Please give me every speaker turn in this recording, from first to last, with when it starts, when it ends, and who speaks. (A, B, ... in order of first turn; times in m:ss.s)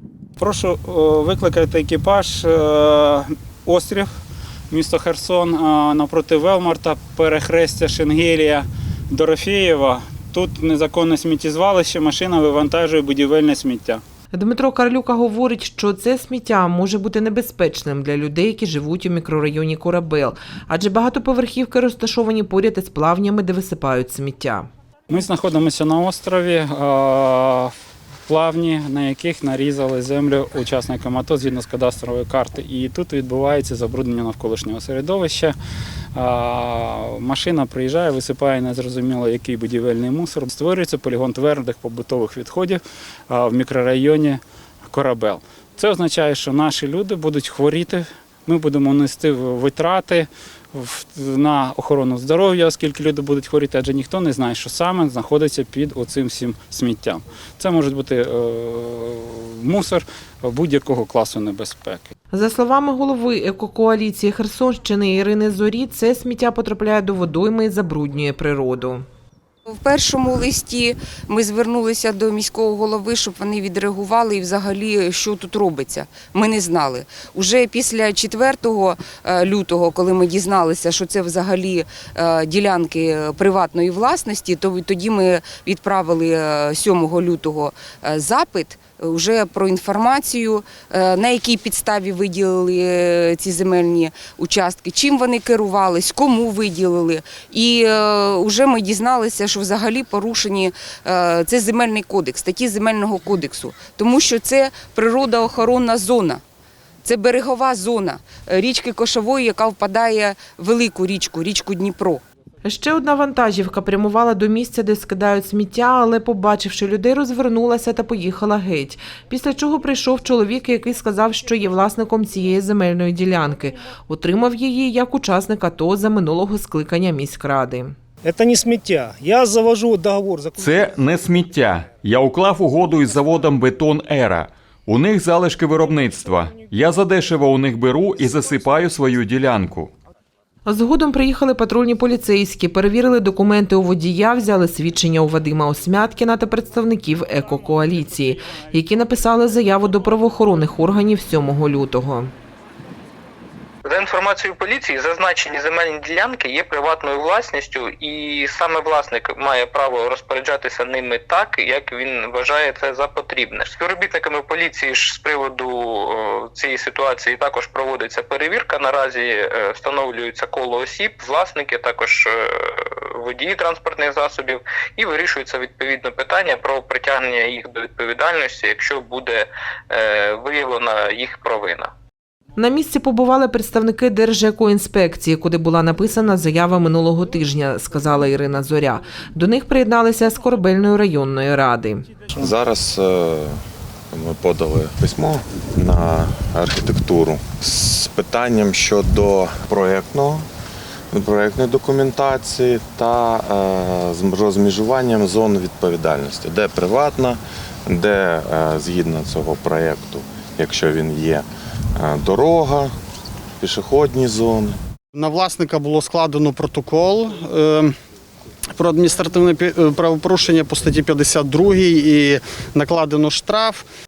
0:00.4-0:04.1 A
0:04.7-0:14.0 A
0:14.3-0:24.7 B
0:25.1-0:27.7 A
0:28.3-0:35.5 A
0:36.1-1:02.1 A
1:02.3-1:09.0 B
1:09.7-1:46.4 C
1:47.0-1:52.2 C
1:52.6-2:08.0 B
2:08.2-2:10.8 D
2:10.6-2:19.9 E
2:20.6-2:32.3 B
2:33.8-3:01.9 F
3:02.6-3:12.0 B
3:12.3-3:13.6 G
3:14.1-3:20.4 G
3:21.1-3:32.9 G
3:33.6-3:34.8 G
3:35.1-3:37.9 H
3:38.8-3:43.8 H